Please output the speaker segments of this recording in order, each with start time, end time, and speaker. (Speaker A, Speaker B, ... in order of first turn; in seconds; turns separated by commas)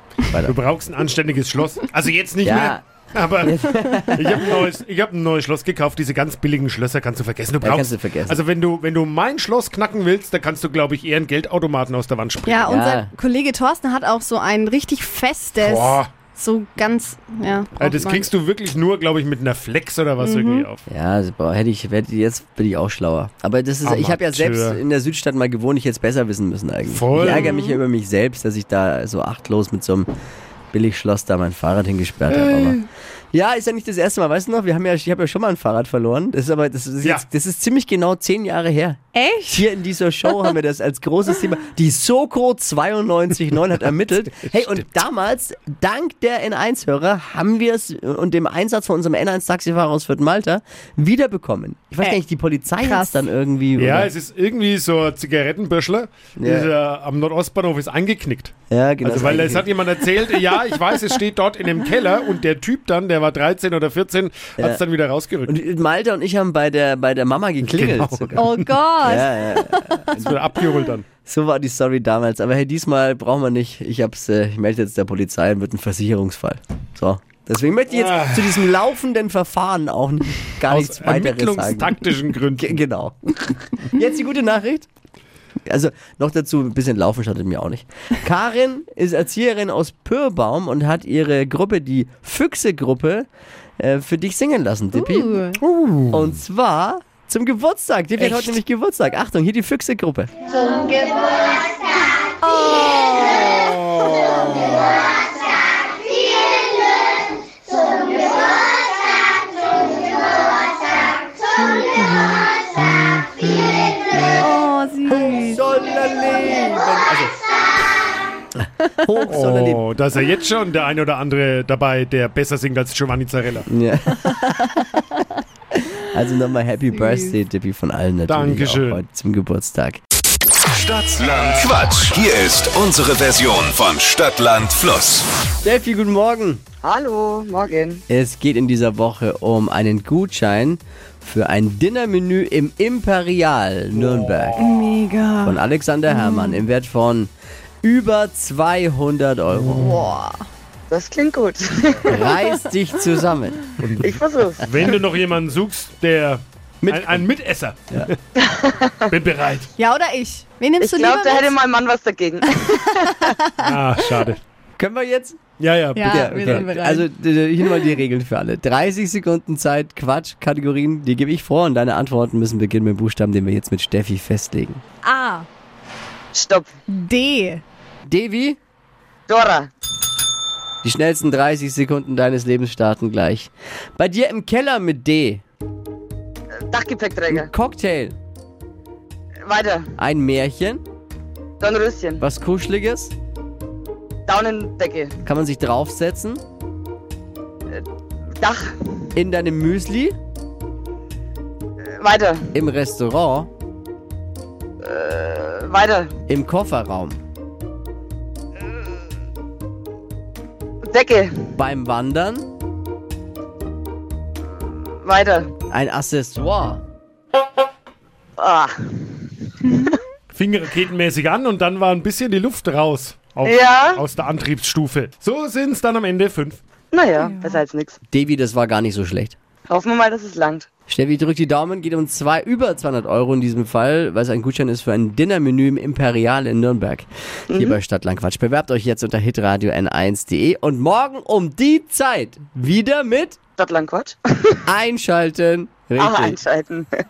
Speaker A: 0.3-0.6, Speaker B: 0.5-12.7, Speaker A: 2.4-2.8, Speaker A: 3.4-4.5, Speaker A: 7.6-8.4, Speaker C: 12.5-18.3, Speaker A: 12.7-13.1, Speaker B: 15.6-16.1, Speaker B: 17.8-20.8, Speaker C: 20.2-20.7, Speaker A: 20.9-30.1, Speaker B: 23.8-24.8, Speaker B: 26.9-27.6, Speaker C: 27.2-27.8, Speaker A: 30.7-54.1, Speaker C: 39.1-39.7, Speaker C: 52.8-53.2, Speaker B: 53.8-58.5, Speaker A: 56.4-56.7, Speaker A: 58.7-59.7, Speaker B: 59.0-65.5, Speaker A: 65.5-70.4, Speaker B: 67.6-68.6, Speaker C: 68.4-70.2, Speaker B: 70.1-71.1, Speaker A: 71.3-81.9, Speaker B: 77.9-78.6, Speaker B: 80.7-82.8, Speaker A: 82.6-84.9, Speaker A: 85.7-93.3, Speaker A: 93.8-100.3, Speaker C: 94.9-95.6, Speaker B: 95.6-96.3, Speaker C: 100.5-101.5, Speaker C: 102.4-103.8, Speaker A: 111.8-114.4, Speaker C: 114.4-115.6, Speaker A: 115.1-117.4, Speaker A: 118.8-119.8, Speaker B: 119.2-123.7, Speaker A: 123.7-124.9, Speaker C: 124.3-125.2, Speaker A: 125.9-130.0, Speaker C: 127.0-127.3, Speaker B: 128.3-129.0, Speaker D: 130.7-135.3, Speaker A: 135.6-136.6, Speaker E: 136.8-138.0, Speaker A: 138.1-144.6, Speaker C: 144.6-146.6, Speaker A: 145.4-147.3, Speaker A: 147.8-150.0, Speaker C: 149.8-150.5, Speaker E: 150.9-152.0, Speaker A: 152.1-153.6, Speaker B: 153.8-158.2, Speaker E: 154.0-154.8, Speaker A: 156.8-157.3, Speaker E: 158.4-159.1, Speaker B: 159.1-159.7, Speaker C: 159.8-161.6, Speaker E: 160.8-163.2, Speaker C: 162.5-163.8, Speaker B: 163.6-164.4, Speaker A: 164.8-165.5, Speaker B: 165.6-166.7, Speaker C: 166.0-167.1, Speaker A: 166.1-174.8, Speaker C: 175.0-175.5, Speaker E: 176.3-176.7, Speaker C: 176.9-177.6, Speaker A: 178.1-178.6, Speaker E: 179.3-179.7, Speaker A: 180.8-185.4, Speaker E: 186.6-187.5, Speaker A: 187.3-188.2, Speaker E: 189.4-189.9, Speaker A: 190.0-190.8, Speaker E: 191.6-192.2, Speaker A: 192.2-193.1, Speaker E: 194.3-195.2, Speaker A: 195.2-196.4, Speaker E: 198.4-199.1, Speaker A: 199.2-200.2, Speaker E: 201.9-202.5, Speaker A: 202.5-203.5, Speaker E: 204.8-206.1, Speaker A: 206.3-207.2, Speaker E: 210.9-211.3, Speaker A: 211.5-212.5, Speaker E: 214.6-215.5, Speaker A: 215.7-216.8, Speaker E: 218.4-219.4, Speaker C: 219.6-220.0, Speaker B: 220.3-226.6, Speaker E: 223.4-224.0, Speaker E: 226.9-228.0, Speaker C: 227.2-227.6, Speaker A: 228.1-229.4, Speaker E: 229.7-230.7, Speaker A: 230.9-243.4, Speaker E: 237.5-237.8, Speaker E: 243.6-244.6, Speaker A: 244.7-246.4, Speaker E: 246.0-246.9